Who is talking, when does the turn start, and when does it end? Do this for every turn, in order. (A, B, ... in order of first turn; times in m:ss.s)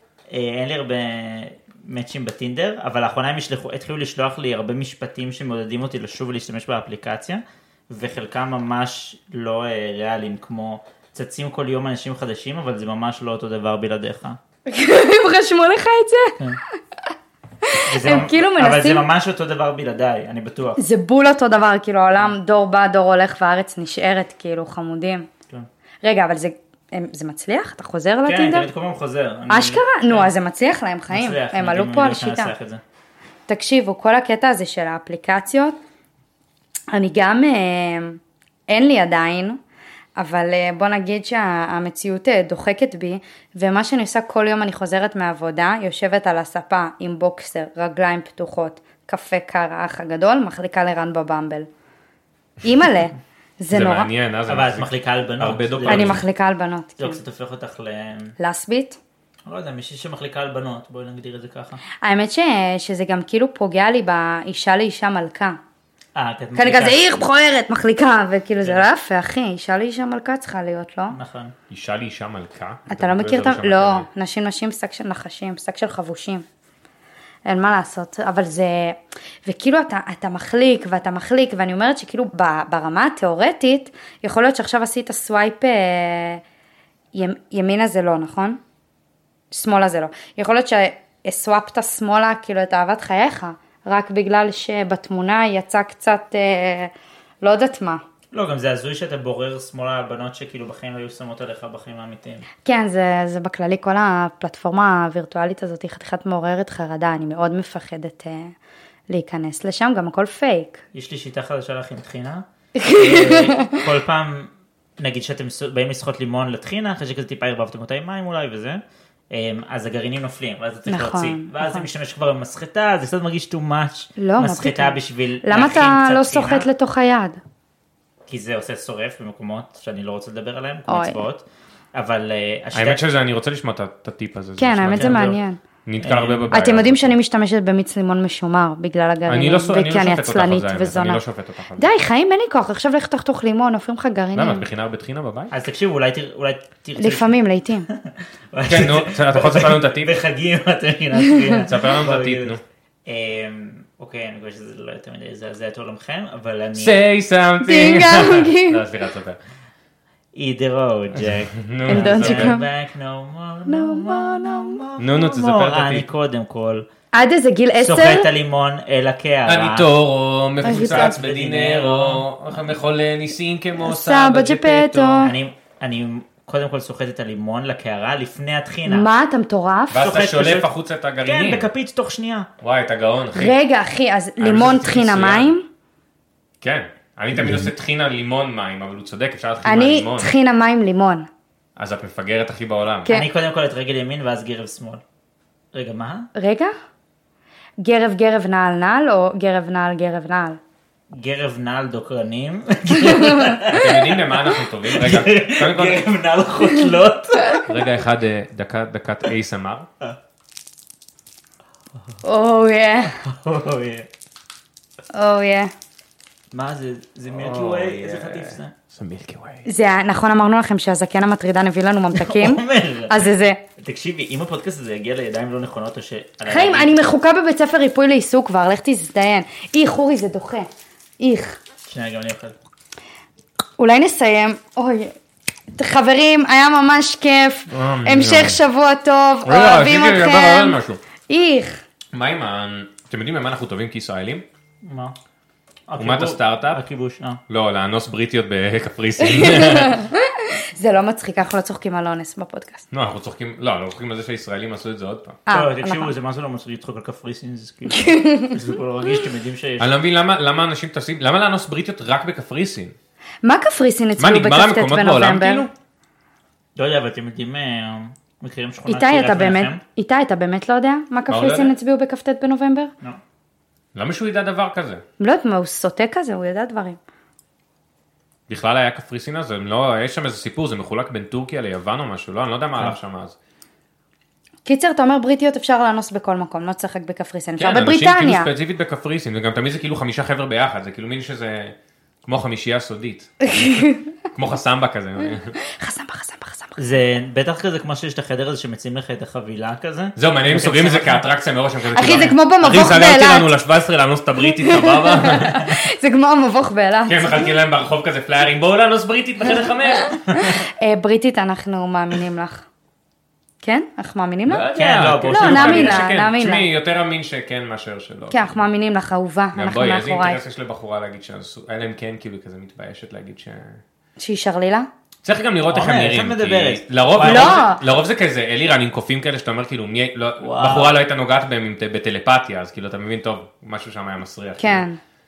0:00.3-0:14.4 A
0:14.7-0:16.4 B
0:17.6-0:19.0 B
0:17.9-0:20.8 A
0:20.8-0:25.3 B
0:26.0-0:28.7 B
0:28.2-0:30.3 A
0:29.5-0:32.5 B
0:31.1-0:32.8 A
0:33.5-0:35.8 B
0:36.9-0:39.6 B
0:40.2-0:51.7 B
0:52.6-0:54.1 B
0:53.7-0:56.2 C
0:54.5-0:56.2 A
0:55.9-0:57.2 B
0:57.0-0:58.4 A
0:58.4-0:59.0 B
0:59.4-1:01.8 A
1:02.0-1:05.6 B
1:06.1-1:07.1 A
1:06.6-1:11.2 B
1:11.1-1:11.5 A
1:11.7-1:14.1 C
1:12.9-1:16.4 B
1:17.4-1:26.4 B
1:27.1-1:28.6 B
1:29.5-1:38.0 B
1:38.3-1:42.4 A
1:42.6-1:48.5 B
1:49.1-1:50.8 B
1:50.9-2:06.7 A
1:52.8-1:53.8 B
2:00.9-2:01.8 B
2:04.2-2:07.4 B
2:08.3-2:13.0 A
2:10.9-2:11.2 B
2:12.7-2:17.1 C
2:14.6-2:15.6 B
2:14.9-2:15.4 A
2:16.0-2:16.5 A
2:16.5-2:21.2 B
2:19.3-2:21.9 C
2:21.8-2:24.6 B
2:24.3-2:25.5 C
2:25.5-2:37.0 A
2:27.0-2:27.9 B
2:28.7-2:30.1 C
2:31.2-2:31.6 B
2:31.7-2:32.6 C
2:36.7-2:39.4 C
2:37.6-2:38.8 B
2:40.3-2:46.8 A
2:41.2-2:42.6 C
2:41.9-2:42.6 B
2:43.7-2:44.8 B
2:45.0-2:46.0 C
2:47.1-2:48.3 B
2:47.8-2:49.9 A
2:49.4-2:55.3 C
2:50.6-2:52.3 A
2:50.6-2:51.2 B
2:53.8-2:55.3 B
2:55.2-2:59.1 A
2:58.8-3:00.0 B
2:59.9-3:01.7 C
2:59.9-3:00.7 A
3:01.2-3:02.5 A
3:02.6-3:03.5 C
3:03.3-3:05.6 B
3:04.4-3:05.5 C
3:06.6-3:10.3 C
3:09.6-3:11.3 B
3:11.8-3:13.1 C
3:13.1-3:15.0 A
3:15.7-3:16.3 A
3:16.3-3:16.7 B
3:17.8-3:20.6 B
3:21.1-3:27.6 A
3:22.9-3:23.6 B
3:23.7-3:26.1 C
3:27.4-3:27.6 B
3:27.6-3:29.9 C
3:32.2-3:33.2 B
3:33.2-3:34.1 A
3:35.1-3:35.7 B
3:36.5-3:38.7 A
3:37.3-3:39.6 C
3:39.6-3:43.6 B
3:42.1-3:43.2 A
3:43.8-3:47.0 A
3:46.4-3:50.7 B
3:51.2-3:51.6 B
3:51.9-3:52.5 A
3:53.8-3:55.1 B
3:55.7-4:01.8 B
3:57.7-3:58.6 C
3:59.4-4:01.0 C
4:02.1-4:04.4 C
4:04.8-4:05.1 A
4:05.9-4:07.4 A
4:06.0-4:06.8 C
4:07.5-4:10.0 C
4:09.2-4:12.9 B
4:12.9-4:15.4 C
4:15.5-4:16.1 B
4:15.5-4:19.9 A
4:17.9-4:18.6 B
4:19.8-4:22.9 C
4:23.4-4:25.7 B
4:24.2-4:25.7 C
4:26.8-4:29.8 A
4:28.9-4:32.9 B
4:31.3-4:31.7 C
4:33.9-4:35.0 C
4:35.2-4:37.0 B
4:38.5-4:43.4 C
4:44.6-4:48.5 B
4:47.6-4:55.6 C
4:53.4-4:54.1 B
4:55.6-4:56.8 B
4:56.8-5:01.2 A
5:00.2-5:05.6 C
5:01.9-5:03.5 B
5:04.4-5:07.5 B
5:07.1-5:10.2 C
5:09.8-5:12.6 B
5:13.6-5:14.7 B
5:14.5-5:18.5 C
5:14.7-5:16.1 A
5:15.2-5:16.7 B
5:18.3-5:20.4 B
5:19.5-5:23.8 C
5:24.2-5:24.9 B
5:25.2-5:34.8 C
5:25.7-5:27.7 A
5:27.2-5:27.8 B
5:30.4-5:31.0 A
5:34.6-5:35.0 B